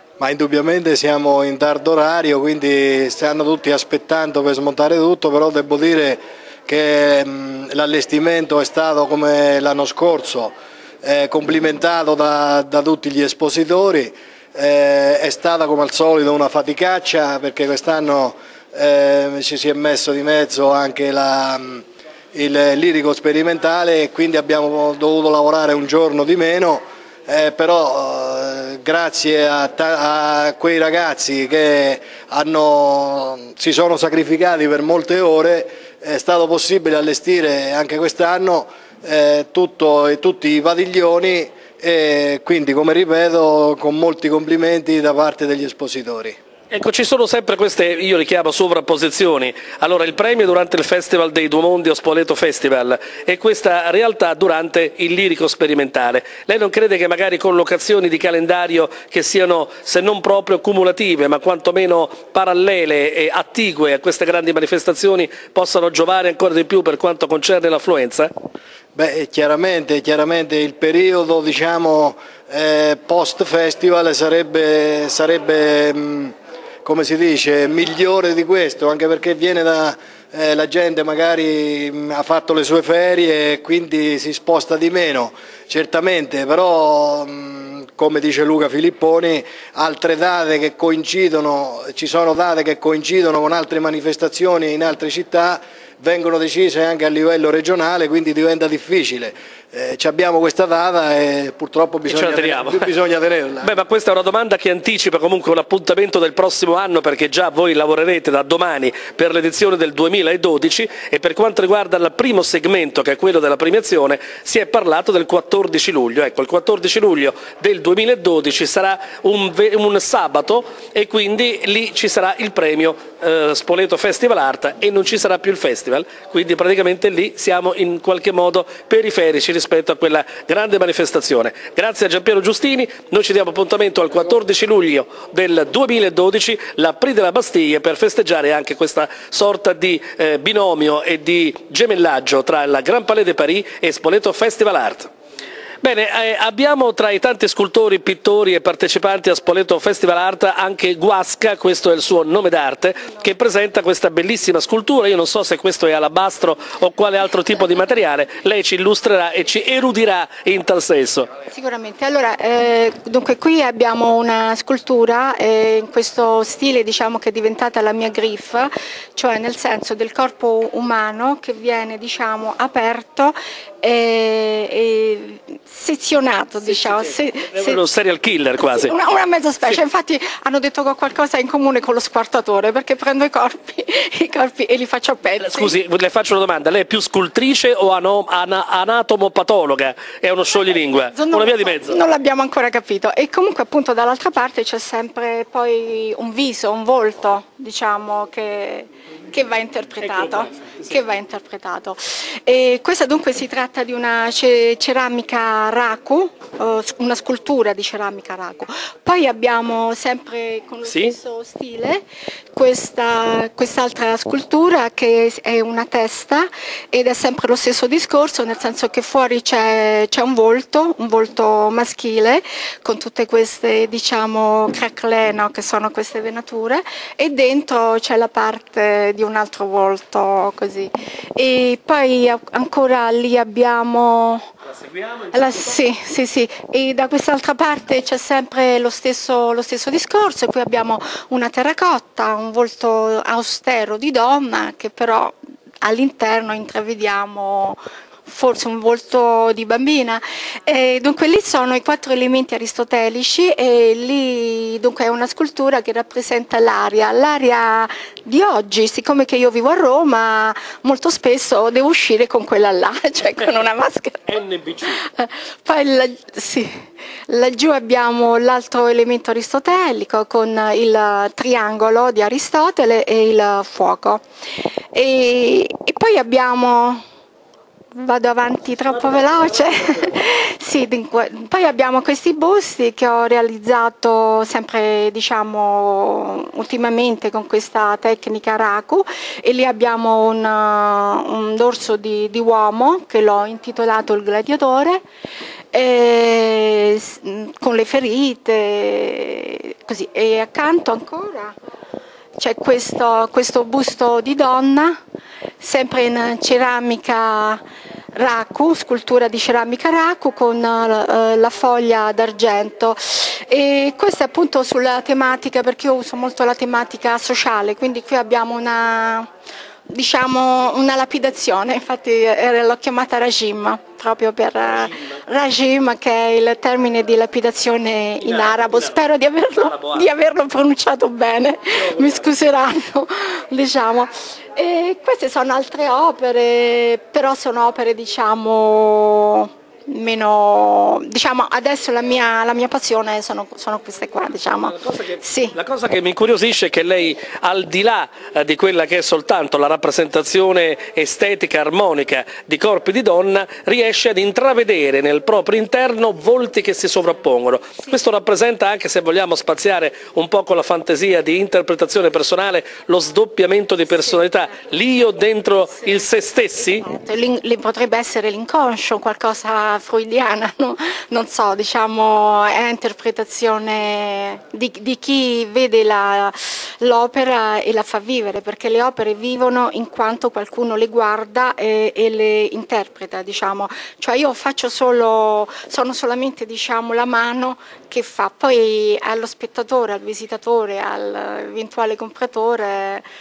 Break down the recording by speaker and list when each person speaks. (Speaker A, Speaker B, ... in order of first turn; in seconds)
Speaker A: 0.2-46.4, 69.0-103.7
Speaker B: 46.7-68.3, 102.1-102.9, 103.6-145.1, 145.8-161.3, 176.7-178.9, 185.4-192.0, 200.1-200.8, 210.8-211.2, 234.8-235.5, 264.3-265.0, 324.6-325.2, 328.2-329.0, 329.6-330.1, 331.7-332.3, 344.7-366.9
Speaker C: 161.5-177.8, 178.6-185.7, 191.1-212.0, 212.5-234.5, 235.3-264.3, 264.9-274.2, 274.9-277.0, 277.9-295.0, 295.7-301.6, 302.4-305.0, 305.6-307.6, 308.1-319.3, 319.9-345.6, 366.6-393.0